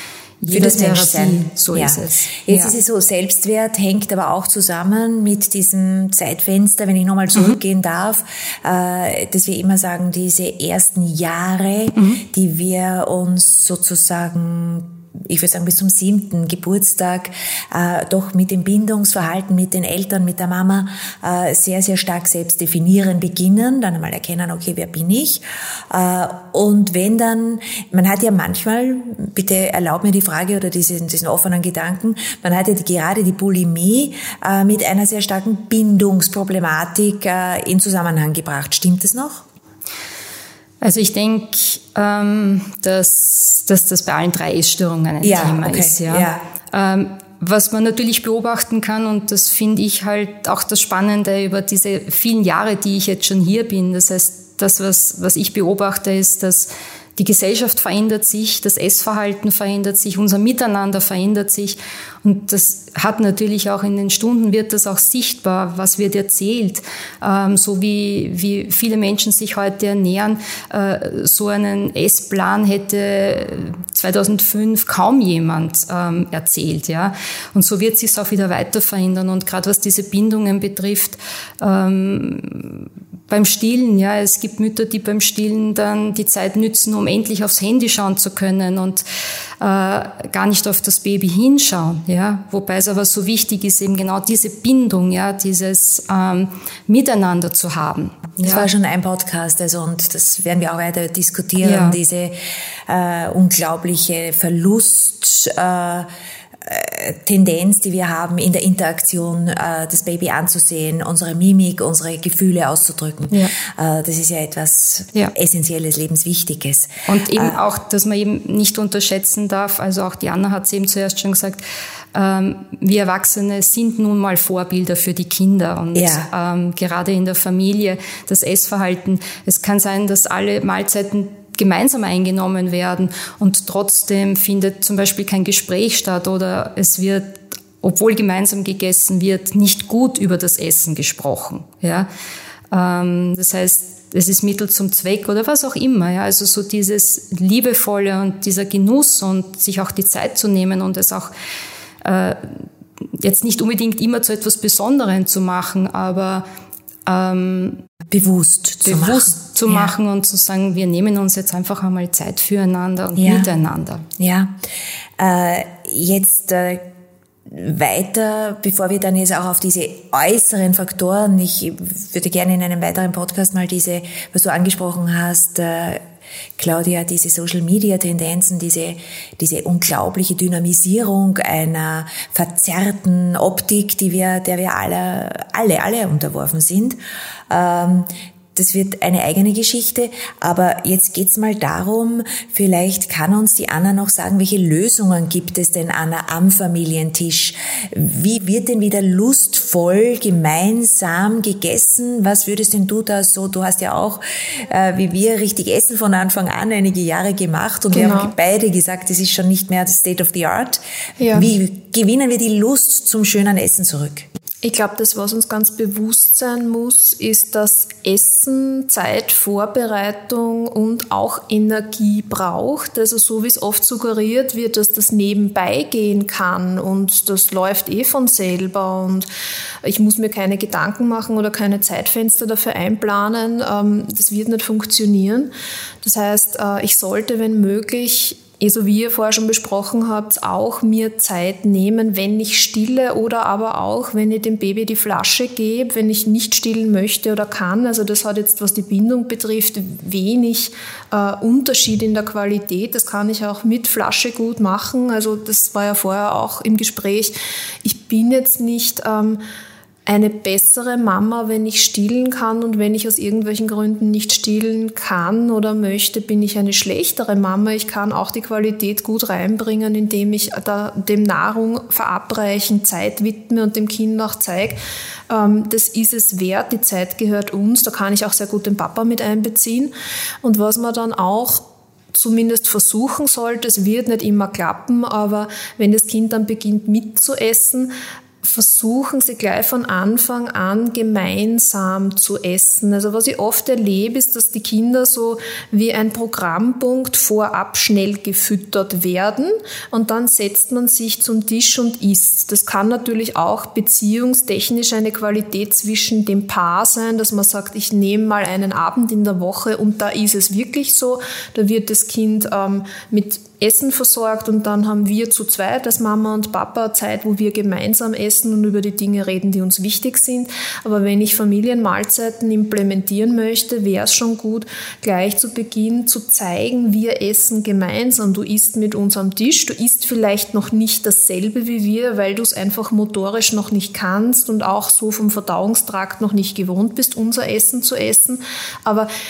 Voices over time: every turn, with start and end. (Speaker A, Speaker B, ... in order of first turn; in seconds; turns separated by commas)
Speaker A: 0.4-2.7, Speaker B: 0.5-39.5, Speaker A: 11.9-12.2, Speaker A: 40.8-89.0, Speaker B: 45.2-46.4, Speaker A: 89.6-98.7, Speaker B: 98.4-102.3, Speaker A: 101.6-102.0, Speaker B: 102.9-106.1, Speaker B: 106.6-117.6, Speaker A: 117.1-121.6, Speaker A: 122.1-142.1, Speaker B: 125.9-126.3, Speaker A: 142.7-151.3, Speaker A: 152.0-152.7, Speaker A: 153.2-156.4, Speaker A: 157.1-157.8, Speaker B: 158.1-159.9, Speaker A: 158.8-164.0, Speaker B: 163.2-163.5, Speaker B: 164.2-164.5, Speaker B: 165.2-166.9, Speaker B: 167.5-176.0, Speaker B: 176.6-187.0, Speaker B: 187.5-210.8, Speaker C: 207.9-208.3, Speaker C: 211.2-211.5, Speaker B: 211.3-214.3, Speaker C: 214.6-229.3, Speaker C: 229.8-259.4, Speaker C: 260.1-274.8, Speaker C: 275.3-287.9, Speaker C: 288.4-339.1